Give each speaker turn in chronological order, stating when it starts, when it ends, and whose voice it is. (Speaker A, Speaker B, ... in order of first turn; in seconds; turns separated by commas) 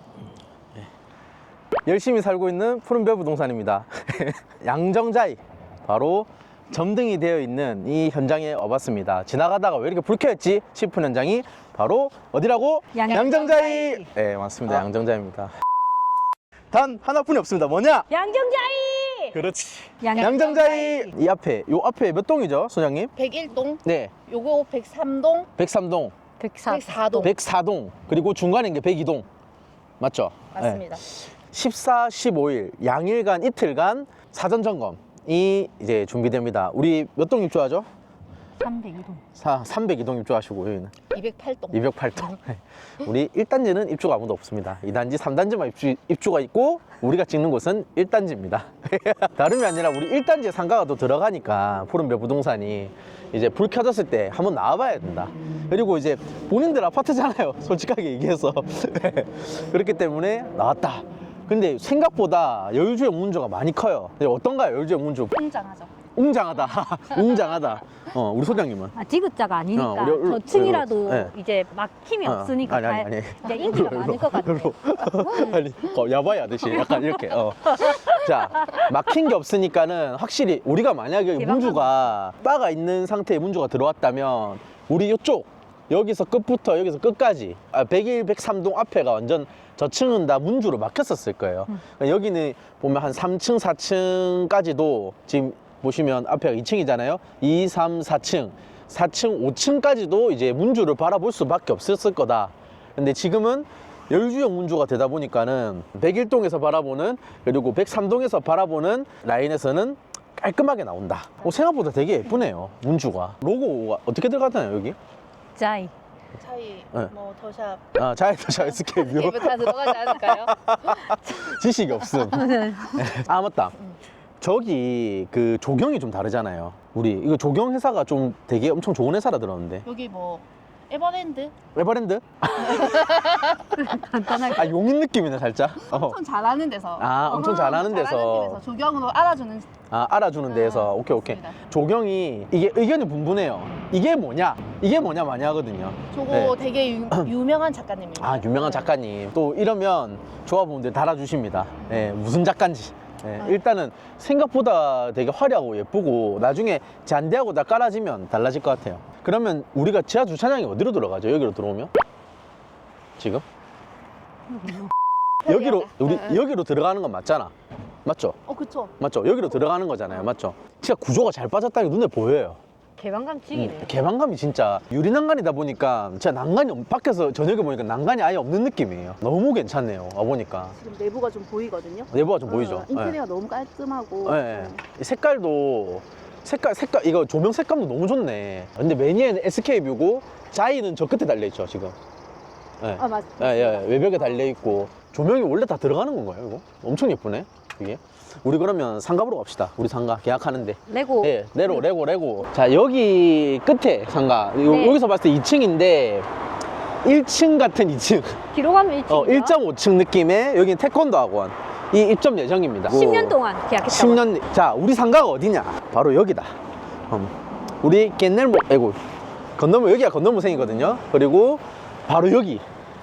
Speaker A: 1.9-15.5, Speaker B: 12.9-13.8, Speaker C: 13.1-14.0, Speaker A: 16.7-18.1, Speaker B: 18.1-19.4, Speaker A: 19.3-23.1, Speaker B: 20.0-20.5, Speaker C: 20.2-21.1, Speaker C: 23.1-25.5, Speaker A: 23.8-24.1, Speaker A: 25.6-26.1, Speaker B: 26.4-27.3, Speaker C: 26.7-27.3, Speaker A: 27.2-29.3, Speaker A: 30.0-30.9, Speaker C: 30.5-31.0, Speaker A: 31.5-37.9, Speaker B: 38.6-39.2, Speaker A: 39.3-41.0, Speaker C: 41.1-42.1, Speaker A: 41.7-65.4, Speaker C: 65.3-65.9, Speaker A: 66.1-69.0, Speaker B: 68.9-75.5, Speaker A: 69.8-71.3, Speaker A: 72.2-115.0, Speaker B: 77.8-78.2, Speaker B: 81.4-82.0, Speaker B: 115.5-115.9, Speaker C: 116.3-117.9, Speaker A: 118.0-123.9, Speaker C: 118.7-121.0, Speaker B: 122.2-123.1, Speaker A: 124.4-129.8, Speaker C: 129.8-131.6, Speaker A: 131.7-133.4, Speaker C: 132.7-133.7, Speaker B: 133.7-134.7, Speaker A: 134.3-136.2, Speaker C: 135.9-139.7, Speaker A: 137.0-138.6, Speaker A: 139.9-146.6, Speaker C: 140.5-141.6, Speaker C: 146.1-148.9, Speaker A: 148.2-161.9, Speaker A: 163.2-163.4, Speaker B: 164.6-164.9, Speaker C: 165.4-166.4, Speaker A: 165.4-167.5, Speaker A: 168.1-168.4, Speaker C: 168.5-168.9, Speaker A: 169.0-172.6, Speaker B: 173.0-173.9, Speaker A: 173.5-180.8, Speaker C: 180.7-184.8, Speaker A: 182.1-183.2, Speaker A: 184.2-191.9, Speaker A: 192.8-206.3, Speaker C: 193.0-194.5, Speaker B: 200.9-201.8, Speaker B: 204.7-205.0, Speaker A: 207.0-208.4, Speaker B: 208.5-209.6, Speaker A: 209.1-216.5, Speaker B: 212.9-214.2, Speaker A: 217.1-219.0, Speaker A: 219.6-222.6